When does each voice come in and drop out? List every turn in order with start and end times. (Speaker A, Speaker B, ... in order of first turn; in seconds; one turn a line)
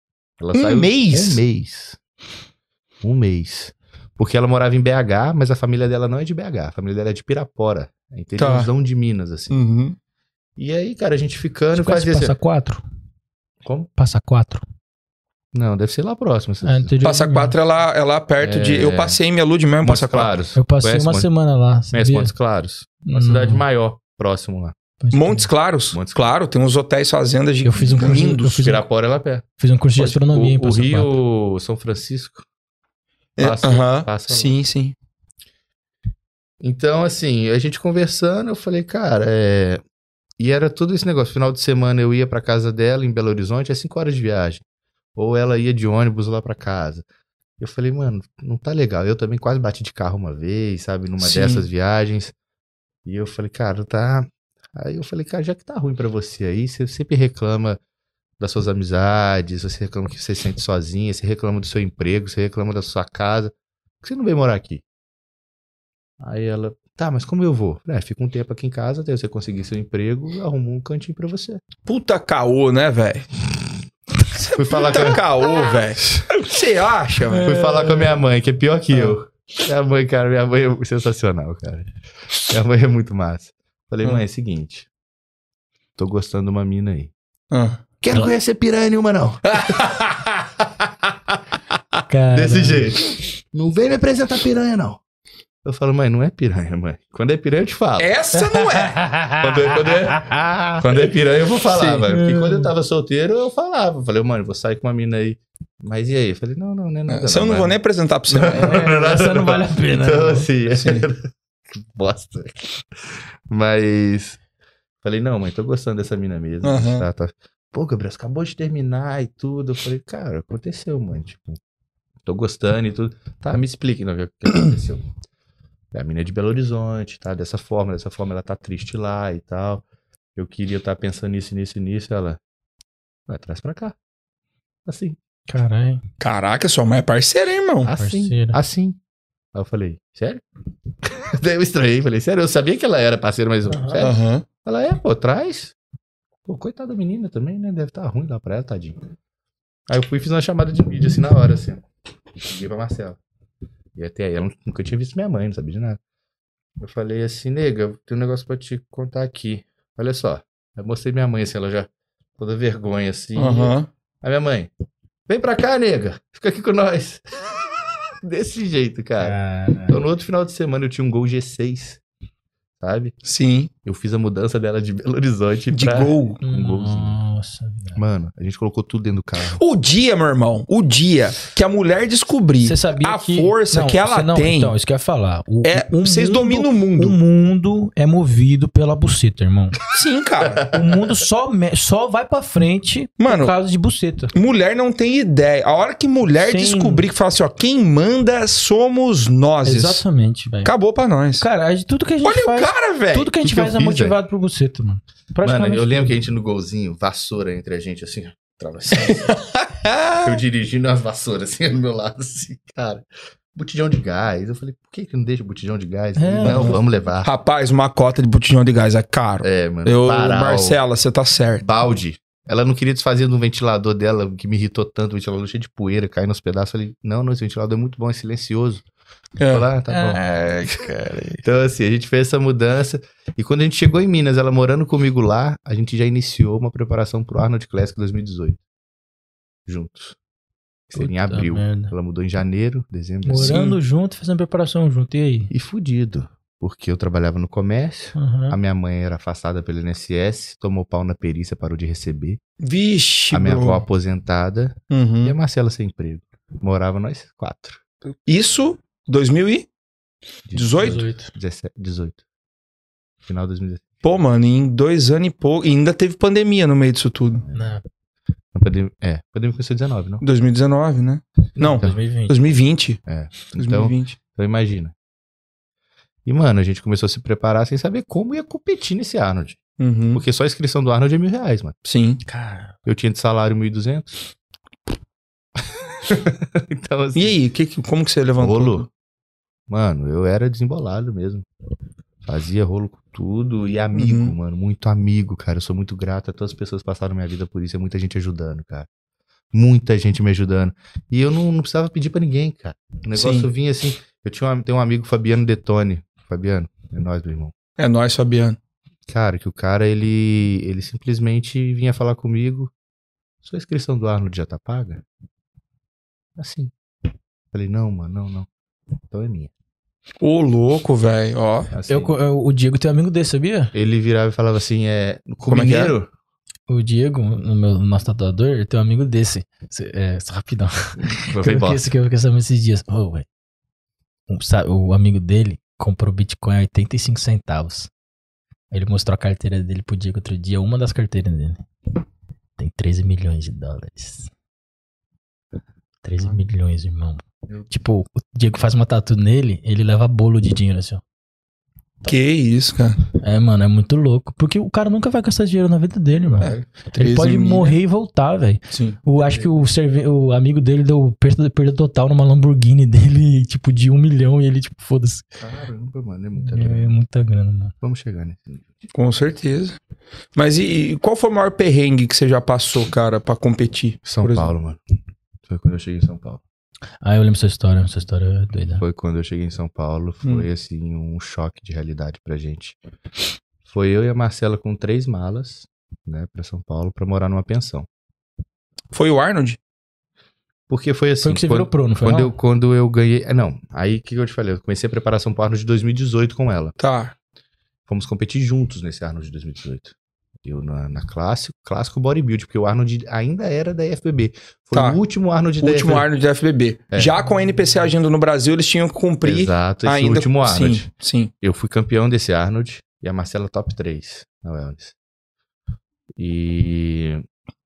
Speaker A: 0.4-2.0
Speaker B: 0.5-1.4
Speaker A: 3.0-9.6
Speaker B: 8.4-8.7
Speaker B: 9.5-10.0
Speaker A: 10.6-12.3
Speaker C: 11.8-12.8
Speaker A: 13.6-13.9
Speaker C: 14.0-14.6
Speaker A: 15.5-16.9
Speaker C: 16.6-17.6
Speaker B: 17.0-20.3
Speaker A: 18.4-19.2
Speaker A: 19.8-21.3
Speaker C: 20.6-22.3
Speaker A: 21.9-24.8
Speaker C: 23.0-23.6
Speaker C: 25.0-25.5
Speaker B: 25.1-28.7
Speaker A: 25.9-26.2
Speaker C: 27.6-28.9
Speaker A: 27.9-29.4
Speaker C: 29.6-31.1
Speaker A: 30.0-32.5
Speaker B: 33.4-35.0
Speaker A: 33.4-34.6
Speaker A: 36.6-39.8
Speaker A: 40.4-44.6
Speaker A: 45.2-47.0
Speaker A: 47.6-52.3
Speaker B: 51.2-51.7
Speaker A: 53.1-57.8
Speaker A: 58.4-64.8
Speaker A: 66.2-71.6
Speaker B: 71.9-73.3
Speaker B: 74.3-77.7
Speaker A: 74.5-75.7
Speaker A: 77.4-81.9
Speaker A: 82.5-84.9
Speaker A: 86.0-87.1
Speaker B: 87.5-87.8
Speaker A: 88.0-89.8
Speaker B: 89.5-90.3
Speaker C: 92.1-92.9
Speaker A: 92.3-95.0
Speaker A: 95.6-98.1
Speaker B: 98.0-99.0
Speaker C: 98.4-100.8
Speaker A: 99.4-107.8
Speaker B: 101.7-102.0
Speaker C: 102.1-102.7
Speaker B: 107.1-108.7
Speaker A: 108.3-114.4
Speaker C: 108.5-110.5
Speaker B: 110.8-111.1
Speaker A: 115.0-121.6
Speaker B: 116.6-117.1
Speaker A: 122.2-125.0
Speaker A: 125.9-129.8
Speaker A: 130.4-132.4
Speaker A: 133.3-133.9
Speaker A: 134.9-135.2
Speaker C: 135.5-136.0
Speaker B: 136.2-137.9
Speaker A: 137.8-139.0
Speaker C: 137.9-138.6
Speaker A: 139.5-140.4
Speaker A: 141.0-145.7
Speaker C: 143.7-144.0
Speaker B: 144.0-144.4
Speaker A: 146.4-149.0
Speaker A: 149.9-151.8
Speaker A: 152.4-153.2
Speaker A: 154.0-156.0
Speaker A: 156.8-164.7
Speaker B: 163.4-163.9
Speaker A: 165.3-167.4
Speaker A: 168.2-169.3
Speaker C: 169.2-170.0
Speaker A: 169.9-172.0
Speaker A: 172.8-173.2
Speaker B: 173.2-173.7
Speaker A: 173.8-177.2
Speaker B: 175.7-176.4
Speaker C: 176.4-178.0
Speaker A: 178.0-179.6
Speaker B: 179.6-184.8
Speaker C: 182.6-189.8
Speaker B: 185.6-187.2
Speaker B: 189.9-190.7
Speaker C: 190.7-194.3
Speaker B: 193.2-193.6
Speaker B: 194.3-200.0
Speaker C: 196.2-197.1
Speaker C: 199.7-200.7
Speaker B: 200.6-201.5
Speaker C: 201.4-206.2
Speaker B: 202.2-203.3
Speaker A: 203.4-204.2
Speaker A: 205.4-209.4
Speaker B: 208.9-210.4
Speaker A: 210.2-217.3
Speaker C: 216.2-216.8
Speaker B: 216.4-221.7
Speaker A: 219.4-220.8
Speaker A: 221.6-228.8
Speaker B: 229.4-229.7
Speaker A: 229.5-230.9
Speaker C: 229.9-231.4
Speaker A: 231.4-238.6
Speaker A: 239.7-240.2
Speaker A: 240.9-243.6
Speaker C: 240.9-241.9
Speaker C: 243.2-245.5
Speaker B: 243.4-243.8
Speaker A: 245.5-252.4
Speaker C: 248.2-248.6
Speaker B: 252.6-253.8
Speaker A: 253.3-257.8
Speaker B: 254.9-255.4
Speaker B: 258.3-259.7
Speaker A: 260.5-262.2
Speaker B: 260.5-261.1
Speaker C: 260.8-261.3
Speaker A: 263.2-264.1
Speaker B: 264.0-267.4
Speaker A: 267.4-267.7
Speaker C: 267.5-267.8
Speaker A: 268.5-270.2
Speaker B: 270.2-273.0
Speaker C: 271.6-272.4
Speaker A: 273.1-274.9
Speaker B: 273.5-274.2
Speaker A: 276.3-279.6
Speaker B: 279.8-280.2
Speaker A: 280.1-281.8
Speaker B: 281.9-282.2
Speaker C: 282.3-282.7
Speaker A: 282.9-284.1
Speaker A: 286.0-287.4
Speaker B: 287.1-288.9
Speaker A: 288.4-288.9
Speaker A: 289.7-291.4
Speaker A: 292.2-298.9
Speaker B: 293.9-294.4
Speaker A: 299.5-307.5
Speaker B: 303.1-303.5
Speaker B: 307.8-308.6
Speaker A: 309.1-312.7
Speaker A: 313.4-315.0
Speaker A: 316.4-316.7
Speaker A: 317.5-318.5
Speaker A: 319.1-319.5
Speaker B: 320.2-321.7
Speaker A: 321.7-322.2
Speaker C: 321.9-323.7
Speaker A: 323.7-326.1
Speaker B: 325.5-325.9
Speaker C: 326.7-333.3
Speaker A: 331.0-331.8
Speaker C: 334.3-337.9
Speaker C: 338.7-341.6
Speaker C: 342.6-344.3
Speaker C: 346.0-351.0
Speaker B: 352.1-353.0
Speaker C: 353.2-365.3
Speaker A: 356.2-356.7
Speaker B: 356.4-357.8
Speaker B: 358.7-359.0
Speaker A: 359.2-359.5
Speaker A: 365.4-366.9
Speaker C: 366.4-367.7
Speaker A: 367.8-368.7
Speaker B: 368.9-369.8
Speaker B: 370.4-374.5
Speaker A: 374.1-374.8
Speaker A: 375.5-376.4
Speaker C: 377.0-378.8
Speaker A: 378.8-382.8
Speaker A: 383.7-387.9
Speaker B: 388.9-389.6
Speaker A: 390.7-396.8
Speaker C: 391.2-392.3
Speaker B: 396.8-397.1
Speaker A: 397.9-406.1
Speaker B: 404.7-405.0
Speaker B: 405.6-411.3
Speaker A: 409.2-410.9
Speaker A: 411.4-414.9
Speaker A: 416.2-417.2